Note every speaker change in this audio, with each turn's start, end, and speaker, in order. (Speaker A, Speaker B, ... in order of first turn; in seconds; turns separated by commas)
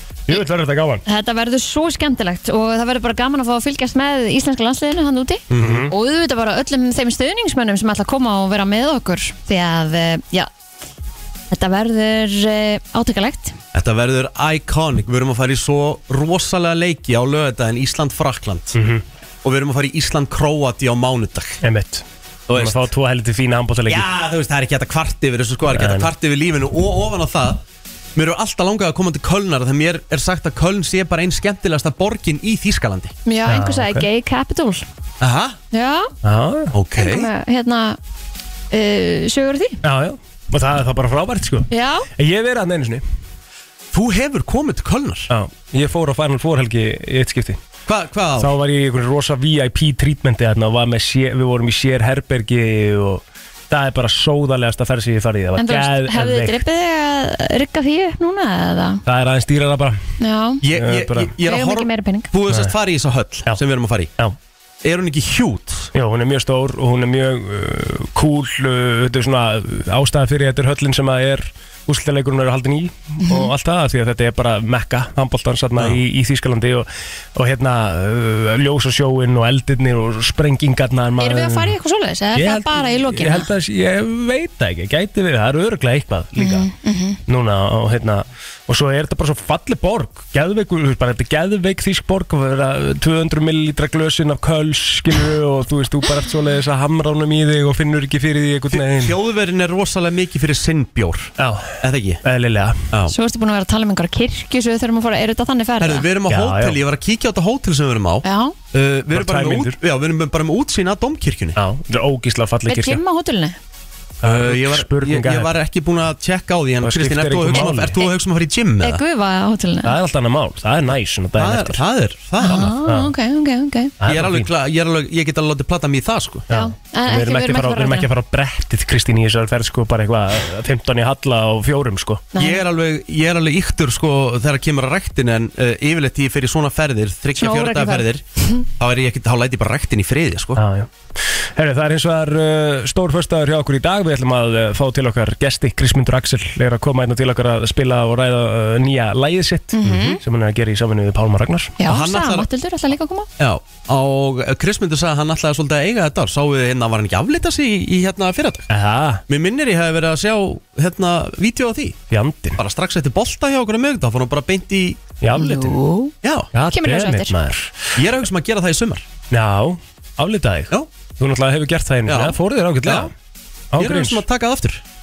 Speaker A: 0.3-1.0, Speaker B: 1.1-10.5, Speaker C: 5.5-5.9, Speaker A: 5.6-5.9, Speaker B: 11.5-13.6, Speaker C: 13.7-18.8, Speaker A: 18.7-19.0, Speaker C: 19.4-21.6, Speaker A: 21.6-24.1, Speaker C: 22.5-22.8, Speaker C: 23.9-27.6, Speaker A: 25.7-26.1, Speaker C: 28.2-33.1, Speaker B: 33.3-34.9, Speaker A: 33.5-34.1, Speaker C: 35.2-35.6, Speaker B: 35.7-36.1, Speaker A: 36.2-36.7, Speaker C: 36.7-37.3, Speaker B: 37.0-38.0, Speaker B: 38.7-39.8, Speaker A: 39.8-43.0, Speaker B: 41.7-42.1, Speaker C: 43.9-45.3, Speaker A: 45.3-47.6, Speaker C: 47.9-48.5, Speaker A: 48.4-56.6, Speaker B: 55.6-59.0, Speaker A: 59.1-60.0, Speaker B: 60.2-60.6, Speaker C: 60.6-64.1, Speaker A: 60.7-61.4, Speaker B: 61.4-62.3, Speaker A: 62.5-62.7, Speaker C: 64.8-65.9, Speaker A: 65.9-81.8, Speaker B: 73.2-73.5, Speaker B: 81.2-83.5, Speaker A: 82.3-86.7, Speaker B: 86.4-87.2, Speaker A: 87.3-99.2, Speaker C: 98.7-102.2, Speaker A: 101.4-102.8, Speaker B: 103.1-106.1, Speaker C: 105.8-111.6, Speaker A: 106.3-106.8, Speaker B: 108.2-108.5, Speaker A: 109.1-109.8, Speaker A: 111.6-113.0, Speaker B: 112.7-113.6, Speaker A: 114.2-115.5, Speaker C: 114.2-119.0, Speaker A: 116.8-118.0, Speaker B: 117.5-118.1, Speaker B: 118.8-120.0, Speaker A: 119.8-121.8, Speaker C: 121.4-122.8, Speaker B: 122.4-124.0, Speaker A: 122.8-123.1, Speaker A: 124.0-124.5, Speaker C: 124.1-126.5, Speaker A: 126.5-132.3, Speaker B: 126.5-128.1, Speaker B: 132.3-132.6, Speaker C: 132.4-138.2, Speaker B: 137.4-138.6, Speaker C: 138.8-140.6, Speaker A: 140.6-140.9, Speaker A: 141.5-151.8, Speaker B: 149.7-150.2, Speaker C: 149.9-150.1, Speaker B: 151.8-153.3, Speaker C: 151.9-152.5, Speaker C: 153.4-158.7, Speaker A: 158.7-159.2, Speaker C: 159.3-162.0, Speaker A: 162.1-162.6, Speaker C: 162.6-165.7, Speaker A: 165.2-165.6, Speaker B: 165.3-166.1, Speaker C: 166.2-166.5, Speaker A: 166.5-168.0, Speaker B: 166.7-167.4, Speaker C: 168.0-169.1, Speaker A: 169.3-173.1, Speaker C: 172.1-173.1, Speaker A: 173.7-174.2, Speaker C: 173.8-174.8